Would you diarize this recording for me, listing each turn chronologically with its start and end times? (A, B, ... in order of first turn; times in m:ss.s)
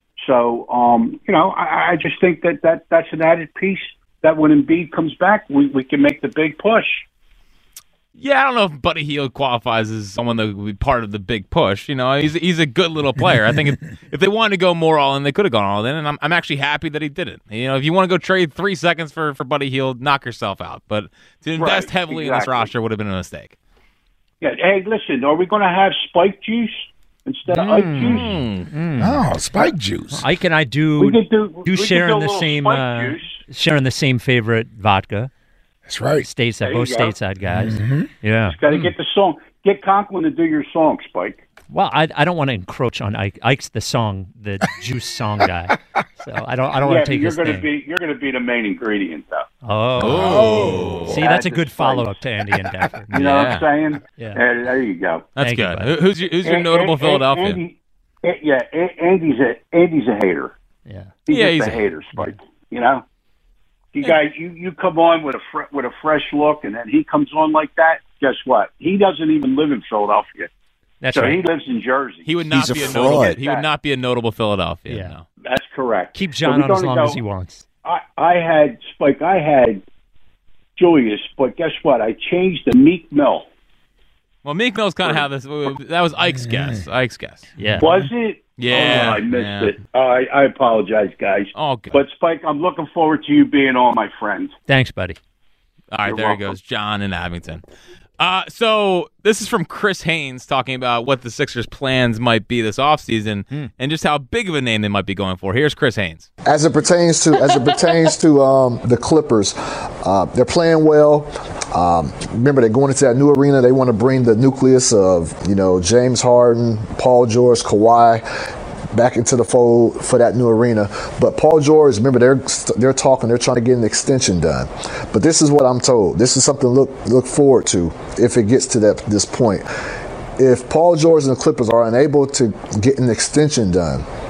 0:00.2-0:07.0 A
0:08.2-0:23.6 B
0:21.6-0:22.7 A
0:24.4-0:28.3 A
0:27.5-0:29.2 C
0:28.0-0:28.7 B
0:29.0-0:30.2 D
0:30.1-0:35.3 C
0:31.0-0:33.4 A
0:35.9-0:36.3 D
0:36.2-0:38.6 C
0:36.6-0:37.2 A
0:37.5-0:38.1 D
0:38.4-0:41.4 A
0:41.7-0:47.7 C
0:46.8-0:49.5 A
0:49.6-0:53.2 C
0:50.0-0:51.2 B
0:50.0-0:51.1 D
0:51.1-0:52.1 A
0:53.1-0:53.6 B
0:53.1-0:55.3 A
0:55.4-0:57.6 B
0:55.4-0:55.9 C
0:56.4-1:00.5 A
1:00.9-1:01.1 C
1:01.2-1:03.0 A
1:01.3-1:01.8 B
1:03.9-1:10.5 A
1:11.0-1:11.4 C
1:11.1-1:13.7 A
1:12.2-1:15.2 B
1:12.5-1:13.3 D
1:12.5-1:13.2 E
1:14.9-1:15.1 C
1:15.4-1:17.2 A
1:16.1-1:17.6 C
1:17.8-1:19.8 A
1:20.8-1:23.5 A
1:24.4-1:27.5 B
1:27.6-1:28.0 C
1:27.8-1:34.5 A
1:28.6-1:29.7 B
1:31.5-1:32.0 B
1:34.7-1:35.2 C
1:35.9-1:37.6 B
1:36.0-1:36.5 A
1:38.2-1:46.3 B
1:46.4-1:58.2 E
1:58.9-2:09.7 E
2:10.4-2:14.0 E